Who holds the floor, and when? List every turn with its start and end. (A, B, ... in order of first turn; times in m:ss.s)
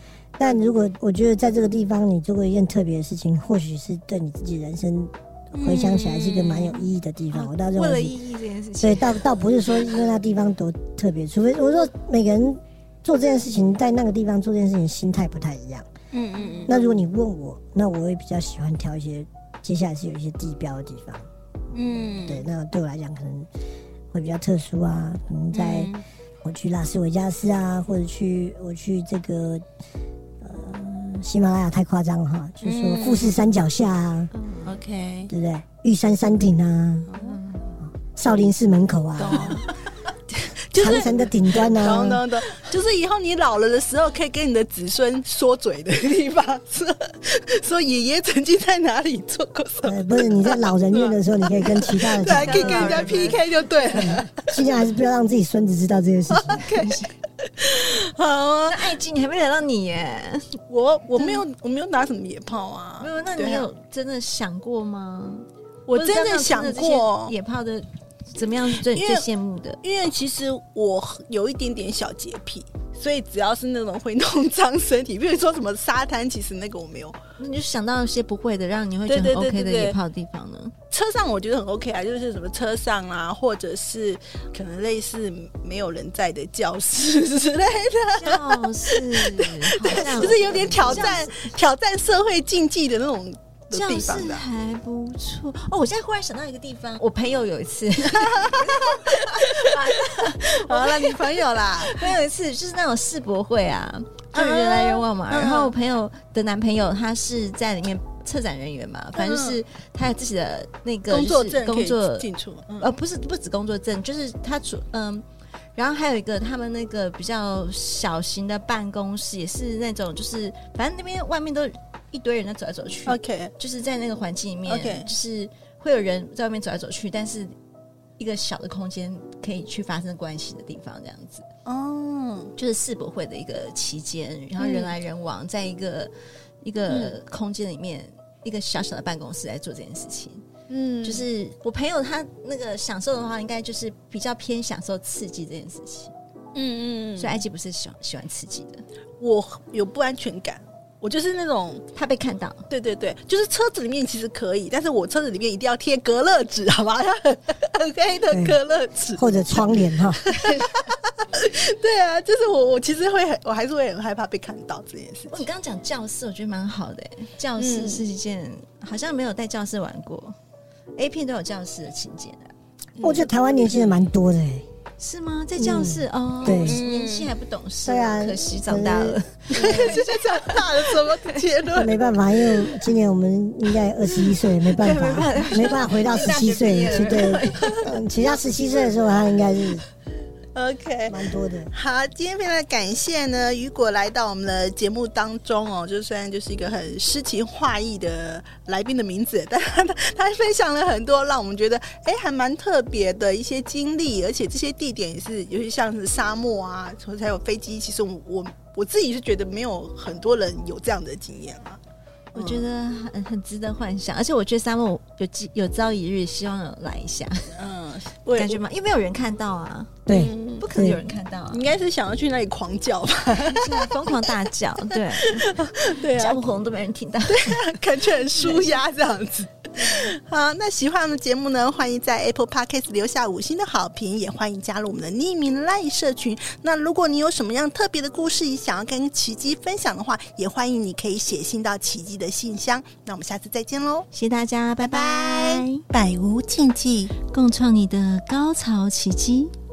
0:00.4-0:08.1 A
0:05.6-0:06.9 B
0:07.3-0:09.2 C
0:08.8-0:15.9 A
0:16.1-0:16.8 B
0:16.4-0:16.7 C
0:16.7-0:21.3 A
0:21.7-0:22.5 B
0:22.2-0:23.5 A
0:24.1-0:25.9 A
0:25.5-0:26.0 B
0:26.4-0:29.6 A
0:30.4-0:34.3 A
0:32.6-0:33.4 B
0:34.3-0:34.8 C
0:34.6-0:35.3 B
0:35.3-0:37.1 A
0:37.1-0:37.4 B
0:37.2-0:37.8 C
0:38.0-0:39.6 A
0:39.2-0:39.8 B
0:40.4-0:54.3 B
0:40.8-0:42.2 A
0:49.8-0:53.3 A
0:52.3-0:53.4 C
0:54.0-0:56.7 A
0:56.3-0:58.9 B
0:56.6-0:57.1 C
0:58.7-1:00.6 C
1:00.7-1:03.7 B
1:01.2-1:01.4 C
1:03.0-1:09.8 C
1:05.9-1:07.4 B
1:08.8-1:09.3 B
1:09.8-1:17.2 B
1:17.4-1:20.8 C
1:19.1-1:20.0 B
1:20.9-1:34.4 B
1:28.2-1:31.5 C
1:33.7-2:07.5 C
1:38.2-1:42.1 B
1:44.3-1:45.7 B
1:49.2-1:49.6 B
1:51.1-1:52.9 B
2:03.1-2:03.5 B
2:04.7-2:05.1 B
2:08.2-2:11.5 C
2:11.7-2:12.5 B
2:12.6-2:20.4 C
2:14.6-2:14.9 B
2:16.9-2:17.2 B
2:20.7-2:21.2 B
2:21.0-2:26.1 C
2:26.5-2:27.4 B
2:27.2-2:28.8 C
2:29.2-2:31.8 B
2:31.9-2:32.6 C
2:32.7-2:45.4 B
2:38.3-2:38.6 A
2:39.2-2:40.3 A
2:45.3-2:50.4 C
2:47.6-2:48.0 B
2:51.0-2:52.5 C
2:53.0-2:53.9 B
2:53.0-2:54.7 A
2:55.0-3:00.8 C
2:55.6-2:56.8 A
2:56.4-2:57.3 B
2:57.8-3:00.0 A
2:59.5-3:01.9 B
3:01.7-3:09.8 A
3:04.6-3:07.9 C
3:10.6-3:11.2 B
3:11.1-3:11.7 A
3:11.7-3:31.8 B
3:32.3-3:32.7 B
3:32.3-3:37.6 C
3:37.6-3:38.6 B
3:38.3-3:40.1 C
3:40.1-3:41.0 A
3:40.1-3:40.6 B
3:40.6-3:41.6 C
3:41.5-3:44.3 B
3:43.4-3:47.6 C
3:45.0-3:46.4 B
3:47.3-4:04.1 B
3:48.4-3:48.8 C
4:04.1-4:05.8 C
4:04.8-4:07.1 B
4:07.3-4:09.6 C